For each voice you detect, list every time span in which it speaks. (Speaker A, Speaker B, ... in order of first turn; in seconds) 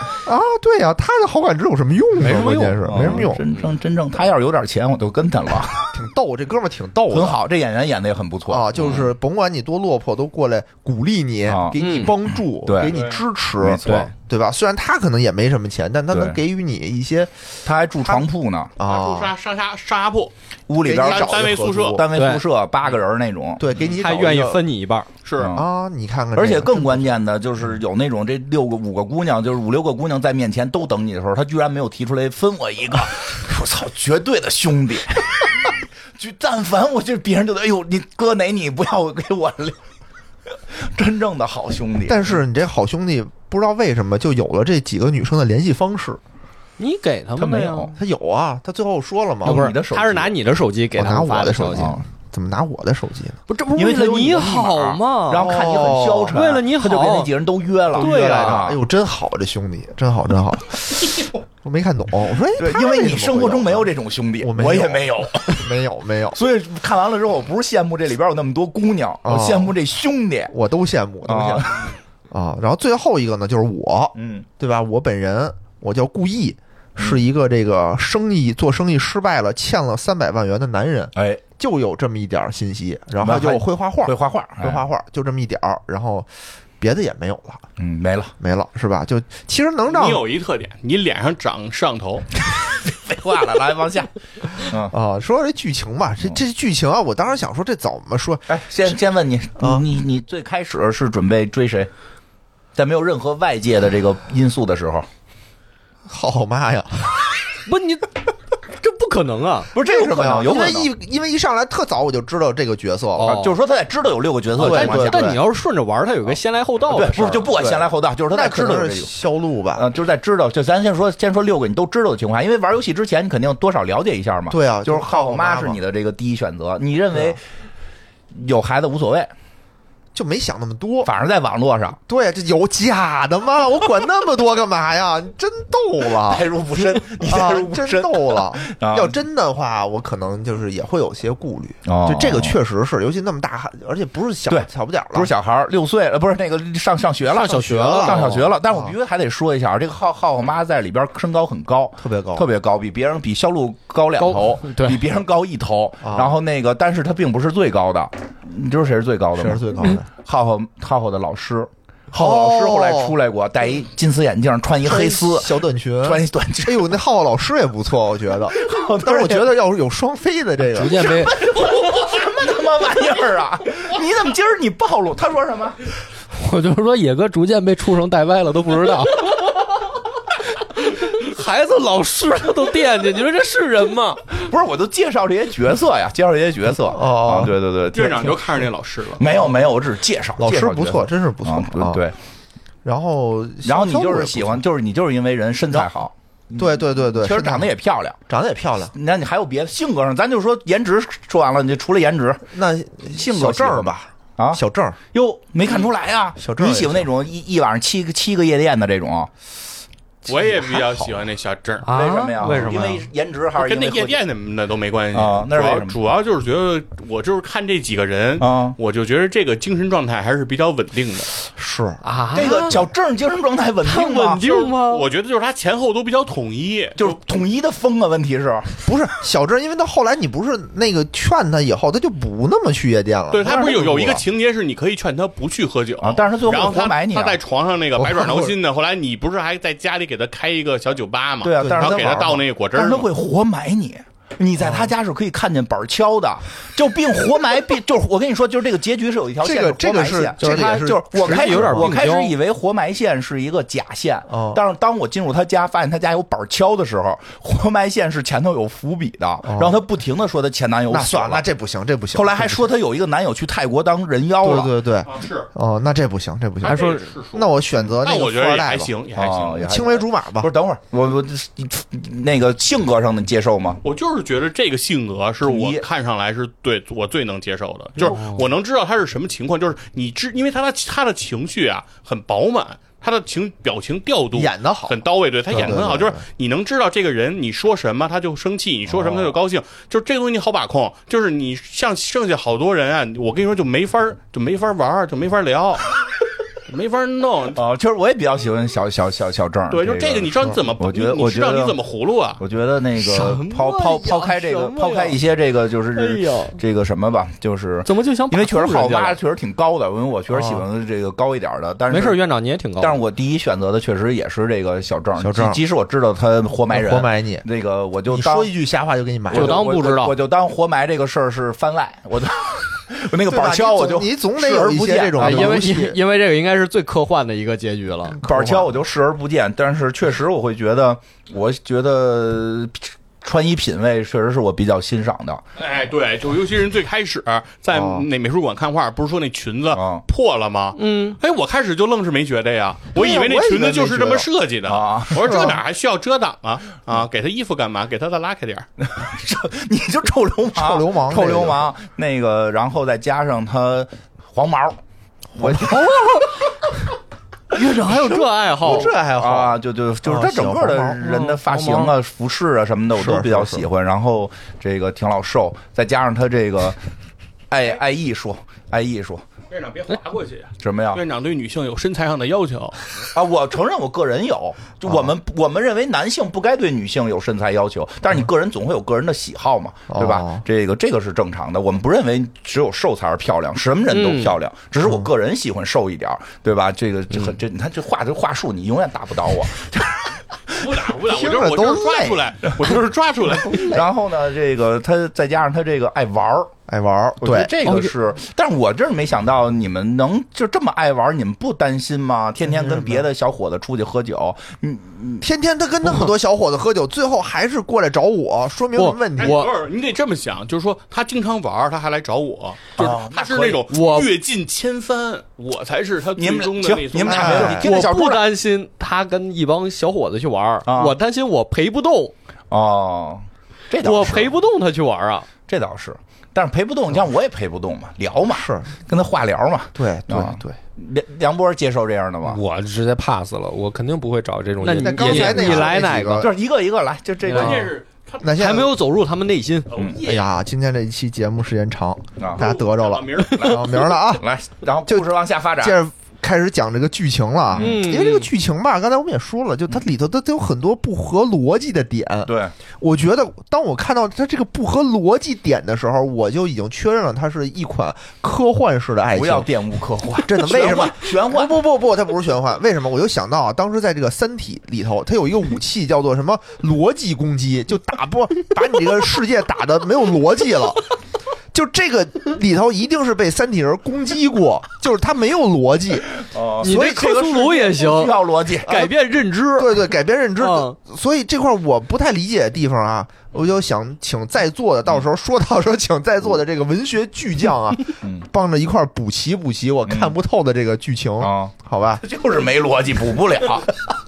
Speaker A: 0.2-3.4, 5.9-7.4, 8.5-17.3, 18.8-19.3, 20.8-22.0, 23.6-24.6, 25.5-27.1, 42.1-46.2, 48.0-49.7, 51.0-53.4, 55.3-56.4, 57.9-66.4, 69.2-69.8, 70.5-87.6, 88.4-90.3, 94.7-98.5, 99.6-99.8, 106.1-107.2, 109.8-113.4, 114.6-115.4, 117.6-119.9, 124.5-125.8, 130.1-131.1, 132.1-145.3, 147.5-148.9, 152.0-152.5, 156.0-156.4, 159.4-160.1, 162.1-163.2, 164.8-171.1, 186.8-187.6, 190.4-192.0, 192.8-194.6, 196.6-197.7, 198.3-198.9, 202.5-205.0, 206.4-207.1, 210.4-211.0, 221.6-222.0, 228.8-234.1, 238.0-238.6, 241.6-242.4, 244.6-244.9, 249.4-252.0, 254.3-254.6, 259.4-259.8, 260.9-262.7, 264.4-268.9, 269.6-270.5, 284.3-286.2, 310.3-310.6, 315.2-315.6, 316.7-317.5, 318.1-319.6, 323.2-326.0, 328.1-328.8, 337.7-338.1, 342.9-344.3, 345.1-345.6, 350.5-351.7, 355.3-356.3, 358.6-361.1, 362.9-363.7, 379.9-380.4, 391.1-392.3, 393.2-393.9, 396.7-397.5, 402.4-403.1, 405.2-409.4, 417.1-417.7, 428.3-428.7, 429.8-430.6, 434.8-436.3, 438.2-438.7, 440.0-444.3, 444.9-459.5, 460.2-470.9, 471.5-477.1, 478.7-478.9, 479.6-492.0
Speaker B: 2.2-3.7, 11.8-12.1, 13.9-14.1, 22.1-22.4, 23.9-25.1, 46.8-47.9, 49.4-51.9, 53.5-55.6, 56.3-57.3, 58.0-58.7, 107.7-108.1, 108.8-109.7, 113.2-113.5, 114.6-117.5, 147.3-148.5, 154.2-155.0, 211.8-213.1, 222.0-222.8, 223.8-225.1, 250.4-252.3, 278.1-278.4, 303.0-305.2, 305.9-306.6, 307.9-309.2, 311.9-313.0, 319.3-320.2, 325.2-328.2, 340.8-341.2, 357.5-358.9, 361.0-361.9, 383.9-384.4, 397.6-397.9, 408.8-409.5, 413.7-414.1, 417.3-422.1, 423.8-425.3, 434.6-436.3, 437.2-437.7, 438.3-439.7, 447.6-448.3, 476.6-479.9, 480.4-480.8
Speaker C: 2.9-5.9, 7.1-9.1, 11.5-13.0, 13.6-14.1, 16.1-16.4, 17.6-18.7, 20.7-24.0, 25.4-25.7, 26.4-39.8, 40.7-42.4, 47.4-47.9, 49.4-50.4, 51.7-52.0, 53.8-58.8, 62.6-65.7, 66.3-70.5, 71.3-71.9, 74.2-74.5, 81.2-81.4, 83.2-84.8, 87.8-88.3, 92.8-94.9, 98.5-101.9, 102.8-105.1, 109.7-110.9, 113.2-115.4, 116.9-119.1, 119.8-127.4, 128.3-129.3, 131.0-132.0, 136.3-139.1, 141.9-142.6, 144.5-166.9, 168.5-169.5, 171.0-175.8, 184.3-188.4, 189.2-192.2, 193.6-198.2, 198.9-202.4, 203.1-204.6, 205.1-209.3, 211.9-214.2, 215.1-216.0, 218.4-218.8, 222.3-224.7, 227.0-228.8, 233.5-234.2, 236.0-237.4, 241.4-261.4, 262.1-264.8, 269.1-273.8, 275.4-275.8, 288.9-289.4, 297.5-301.8, 302.4-312.2, 312.8-318.5, 319.3-325.7, 328.2-335.4, 339.7-340.0, 344.7-345.5, 348.8-354.8, 355.4-356.2, 357.8-366.8, 367.5-369.2, 370.6-371.0, 373.1-390.7, 393.5-396.5, 397.2-405.3, 412.8-413.7, 416.2-418.3, 420.6-421.0, 422.5-424.4, 425.5-432.4, 436.2-437.7, 439.8-440.0, 442.2-442.4, 443.4-445.8, 447.5-447.8, 452.3-452.5, 459.1-461.6, 476.2-478.9, 488.0-488.3, 489.9-490.1, 491.2-493.8
Speaker D: 18.8-20.3, 21.0-22.0, 25.2-25.5, 89.9-92.3, 187.9-189.2, 210.2-211.9, 213.6-221.3, 224.7-227.2, 233.3-243.1, 265.1-265.5, 266.6-269.8, 273.8-296.0, 296.7-297.6, 299.7-302.4, 335.6-348.7, 369.5-372.8, 390.5-393.8, 409.2-417.6, 437.3-438.4, 439.7-440.3, 442.4-443.6
Speaker E: 170.8-171.5, 176.4-179.4, 181.1-184.3, 432.2-435.6